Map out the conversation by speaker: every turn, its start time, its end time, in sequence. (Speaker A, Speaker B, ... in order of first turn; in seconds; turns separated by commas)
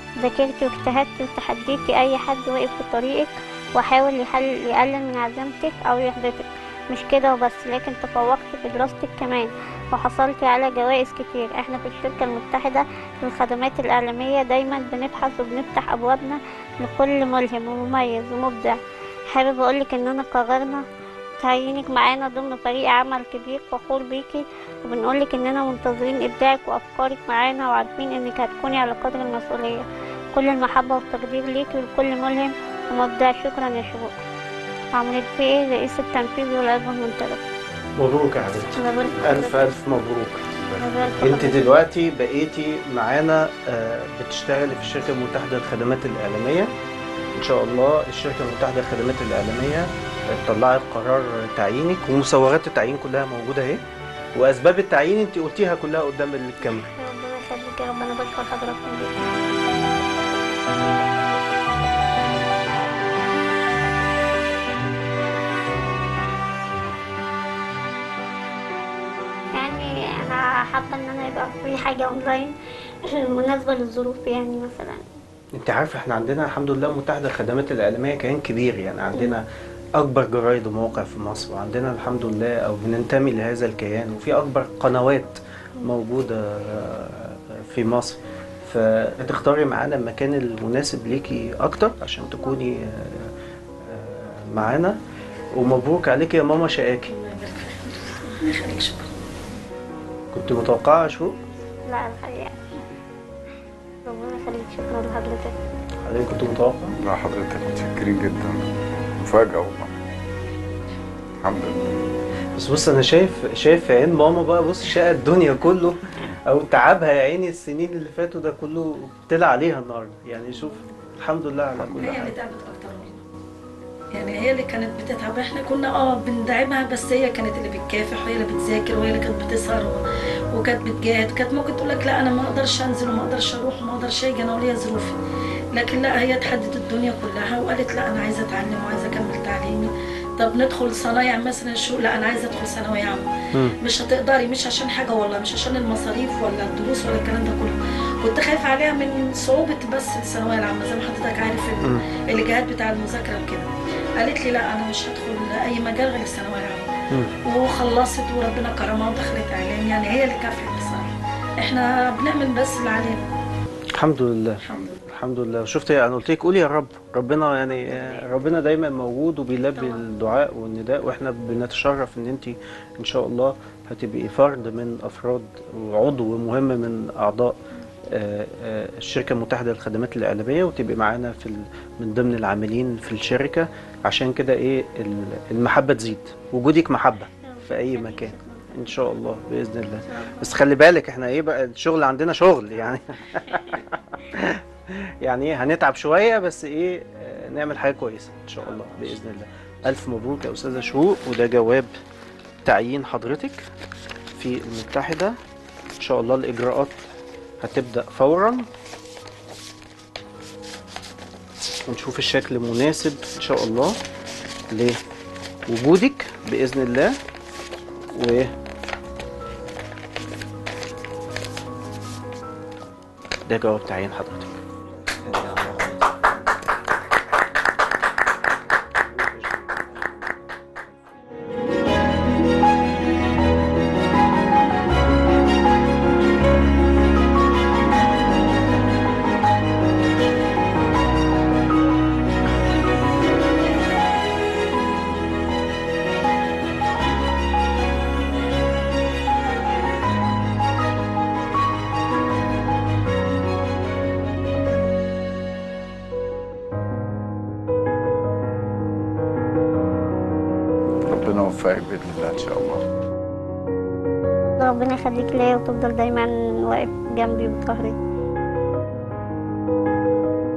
Speaker A: 0.2-18.8, Speaker A: 19.3-20.8, Speaker A: 21.4-34.1, Speaker A: 35.0-37.4, Speaker B: 38.0-40.4, Speaker A: 38.8-39.8, Speaker C: 40.5-41.4, Speaker A: 40.8-41.7, Speaker B: 41.2-46.7, Speaker B: 47.4-53.8, Speaker B: 54.4-56.9, Speaker A: 56.6-59.2, Speaker A: 69.6-72.5, Speaker A: 73.0-75.0, Speaker B: 75.6-79.5, Speaker B: 80.0-93.3, Speaker B: 93.8-95.0, Speaker B: 95.5-97.1, Speaker D: 97.1-99.1, Speaker B: 100.3-101.4, Speaker A: 101.9-102.6, Speaker A: 104.0-105.5, Speaker B: 106.0-107.0, Speaker C: 107.0-109.9, Speaker C: 111.4-112.0, Speaker B: 112.6-122.4, Speaker D: 122.0-123.2, Speaker D: 124.2-130.0, Speaker D: 130.5-135.2, Speaker D: 135.7-143.3, Speaker D: 143.8-156.8, Speaker D: 157.5-163.2, Speaker B: 164.0-201.9, Speaker D: 164.6-165.0, Speaker D: 169.8-170.1, Speaker A: 187.4-189.0, Speaker A: 190.1-190.5, Speaker B: 202.6-203.7, Speaker B: 204.3-205.3, Speaker B: 206.0-207.0, Speaker B: 207.6-208.7, Speaker B: 211.9-214.0, Speaker B: 214.7-215.0, Speaker B: 215.7-217.2, Speaker B: 218.1-218.5, Speaker B: 223.5-224.6, Speaker B: 225.2-226.0, Speaker C: 261.1-262.8, Speaker A: 264.6-268.0